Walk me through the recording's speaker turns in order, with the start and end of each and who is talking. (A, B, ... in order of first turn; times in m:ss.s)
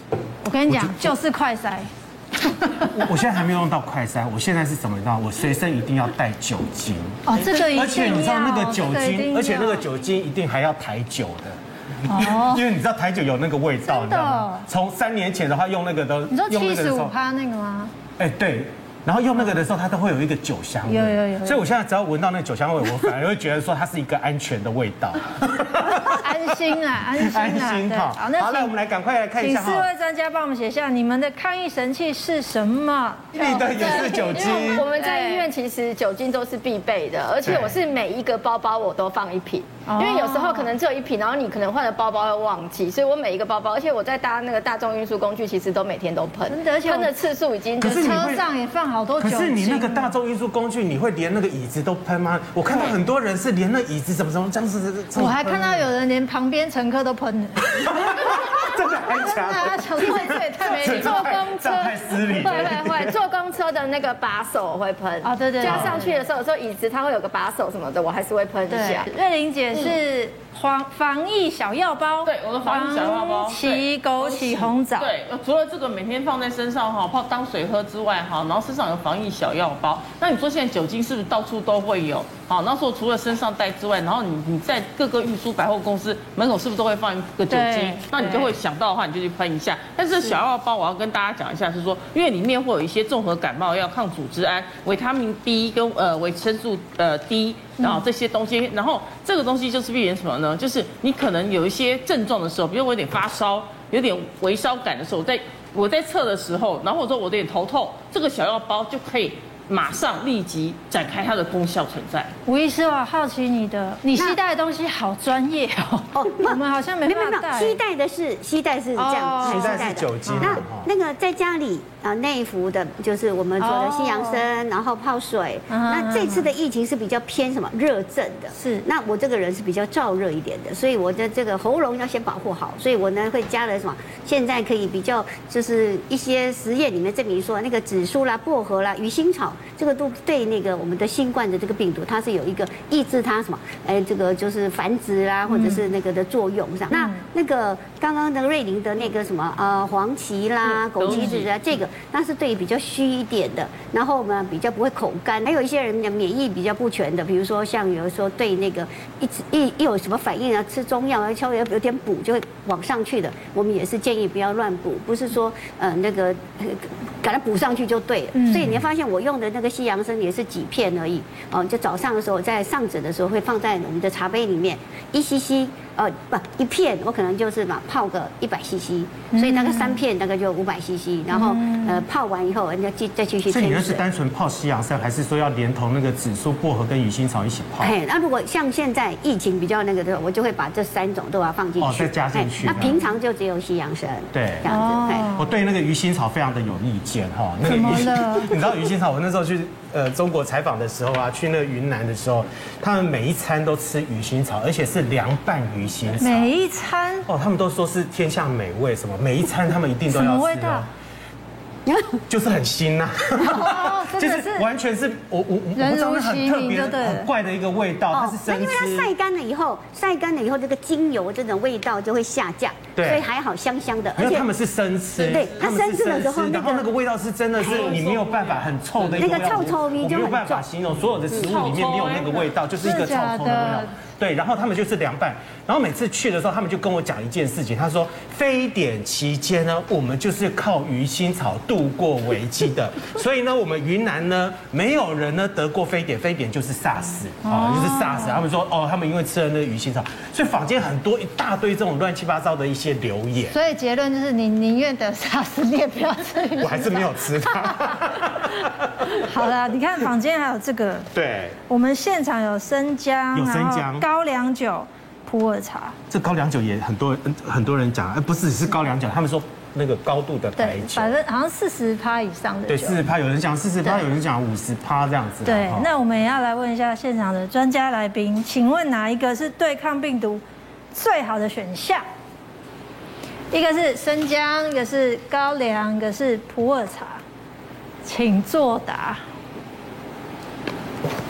0:00.4-0:01.9 A
0:00.7-0:01.1 B
0:02.6-0:02.9 A
0:02.8-0:17.1 B
0:07.2-0:09.9 A
0:12.0-0:12.6 A
0:13.8-0:14.7 A
0:16.3-0:17.9 A
0:18.2-0:26.2 B
0:20.8-0:21.6 A
0:25.7-0:28.8 A
0:27.1-0:29.9 B
0:29.4-0:35.5 A
0:33.3-0:34.8 B
0:34.4-0:48.1 C
0:37.4-0:37.8 B
0:39.8-0:40.7 A
0:46.5-0:47.1 A
0:47.8-0:48.5 B
0:47.9-0:50.1 A
0:49.2-0:55.9 B
0:55.1-1:02.9 A
0:57.7-1:03.2 B
1:02.9-1:05.2 C
1:05.2-1:06.2 A
1:05.6-1:06.0 B
1:05.8-1:09.1 C
1:08.7-1:15.1 A
1:12.2-1:52.3 D
1:27.5-1:28.5 A
1:37.8-1:38.0 A
1:52.4-1:57.8 A
1:56.1-3:04.0 E
1:59.0-2:00.6 A
1:59.4-2:00.9 B
2:03.6-2:04.4 A
2:05.7-2:06.5 A
2:08.5-2:08.8 A
2:25.5-2:25.8 A
2:26.9-2:27.2 A
2:30.6-2:31.5 D
2:48.3-2:48.7 A
2:59.3-3:00.0 A
3:01.3-3:02.0 A
3:03.5-3:07.9 B
3:07.8-3:15.3 E
3:11.8-3:12.9 B
3:12.7-3:13.0 A
3:14.3-3:14.6 B
3:14.7-3:15.5 A
3:15.4-3:26.5 B
3:17.6-3:18.6 A
3:26.2-3:27.3 A
3:27.3-3:30.8 B
3:30.1-3:30.9 A
3:31.8-3:32.2 E
3:32.3-3:39.1 B
3:33.4-3:34.7 A
3:35.7-3:37.3 A
3:38.1-3:44.5 E
3:43.0-3:43.2 B
3:44.2-4:13.5 B
3:45.2-3:46.9 E
3:47.6-3:48.7 D
3:49.1-3:50.6 E
3:51.3-3:52.5 D
3:52.8-3:53.9 A
4:07.4-4:08.4 A
4:13.4-4:18.1 A
4:16.6-4:18.7 B
4:19.0-4:21.1 A
4:21.1-4:21.6 B
4:21.6-4:26.0 A
4:23.3-4:24.1 B
4:26.1-4:31.1 B
4:30.6-4:33.0 A
4:32.7-4:35.9 B
4:35.4-4:40.4 A
4:40.9-4:42.0 A
4:43.5-4:47.2 A
4:48.0-4:49.2 A